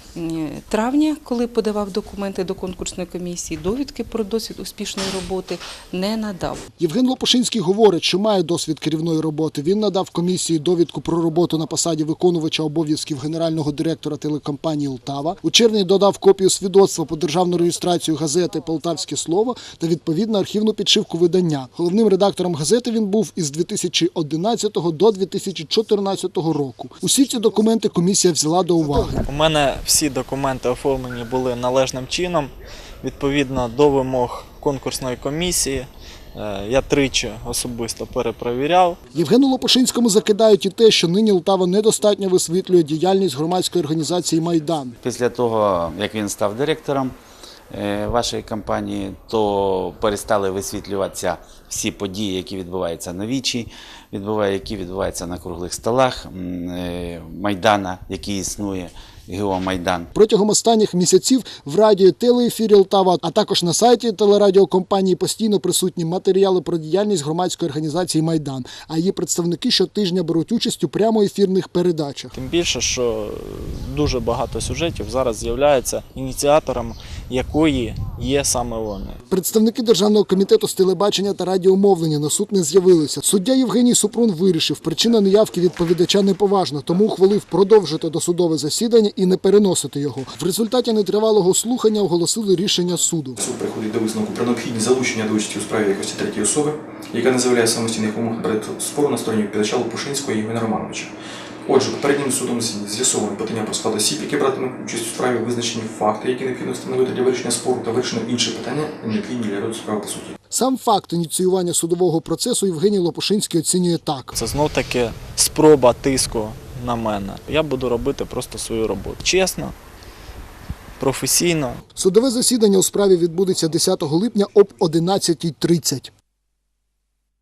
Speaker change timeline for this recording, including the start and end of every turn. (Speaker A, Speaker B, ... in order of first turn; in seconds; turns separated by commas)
Speaker A: 0.1-6.7, Speaker B: 6.8-29.2, Speaker C: 29.1-39.0, Speaker B: 39.1-45.0, Speaker D: 45.0-47.1, Speaker D: 47.7-60.1, Speaker B: 60.1-72.3, Speaker C: 72.3-79.2, Speaker B: 79.3-93.3, Speaker E: 93.3-101.1, Speaker E: 101.6-110.3, Speaker B: 110.5-114.3, Speaker C: 114.3-119.7, Speaker C: 121.0-121.8, Speaker B: 122.0-126.1